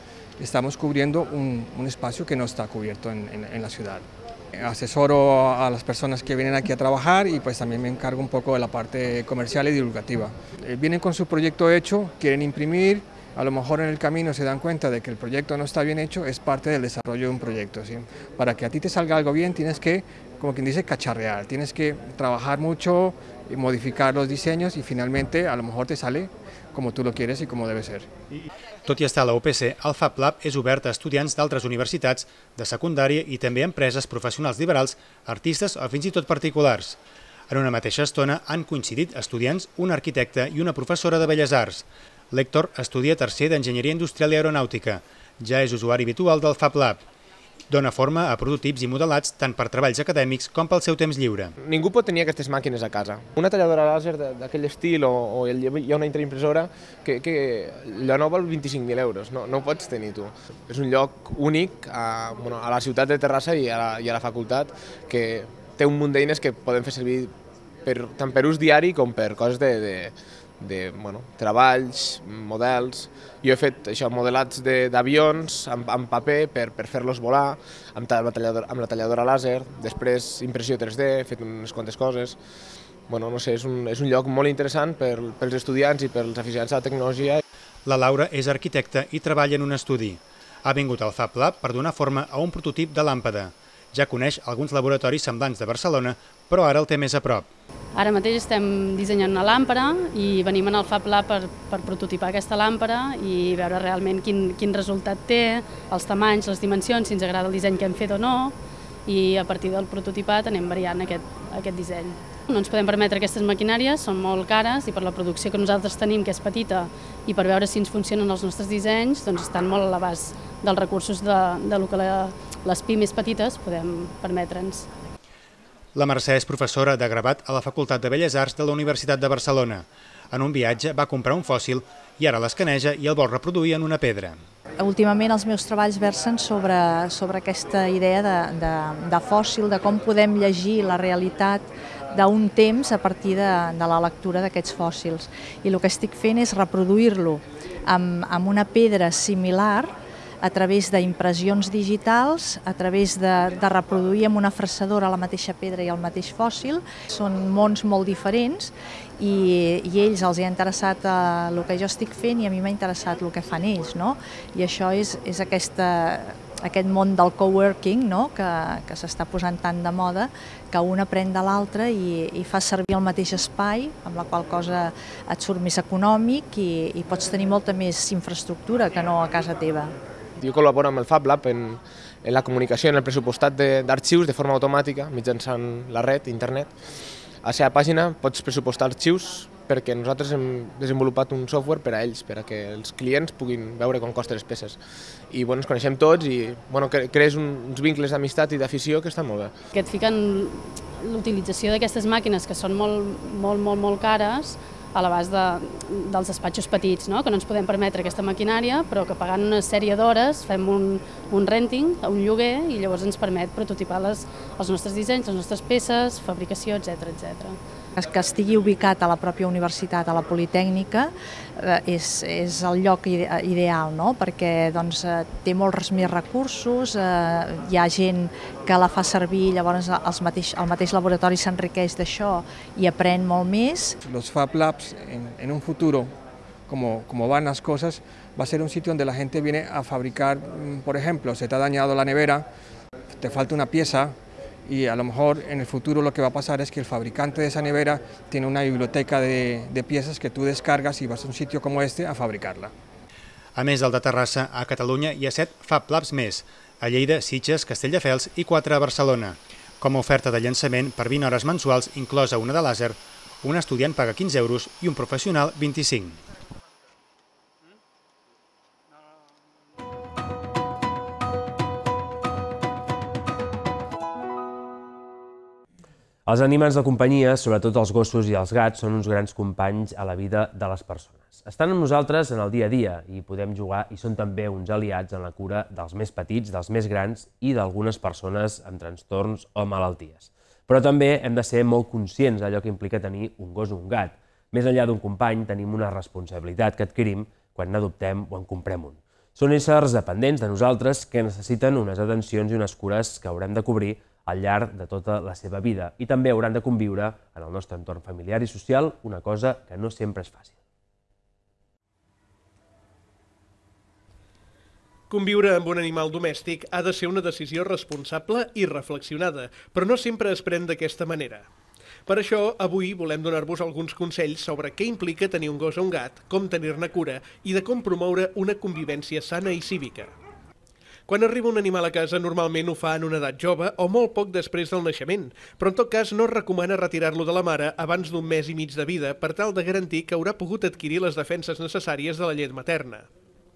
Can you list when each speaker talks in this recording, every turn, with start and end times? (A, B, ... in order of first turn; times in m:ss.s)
0:00.4-0:28.1 A
0:28.8-0:47.0 B
0:47.7-0:51.5 B
0:51.6-1:07.3 C
1:07.8-1:22.4 C
1:23.1-1:27.4 C
1:27.8-1:37.5 B
1:38.0-1:48.5 D
1:49.1-2:04.9 D
2:06.0-2:14.4 B
2:14.8-2:59.9 E
3:00.4-3:06.8 C
3:07.4-3:19.6 C
3:19.7-3:37.6 D
3:38.0-3:54.0 E
3:54.0-3:56.2 A
3:56.7-4:02.5 A
4:03.2-4:12.7 A
4:13.6-4:26.2 B
4:36.3-5:10.6 F
5:15.1-5:21.5 G
5:22.1-5:30.1 G
5:31.1-5:43.1 G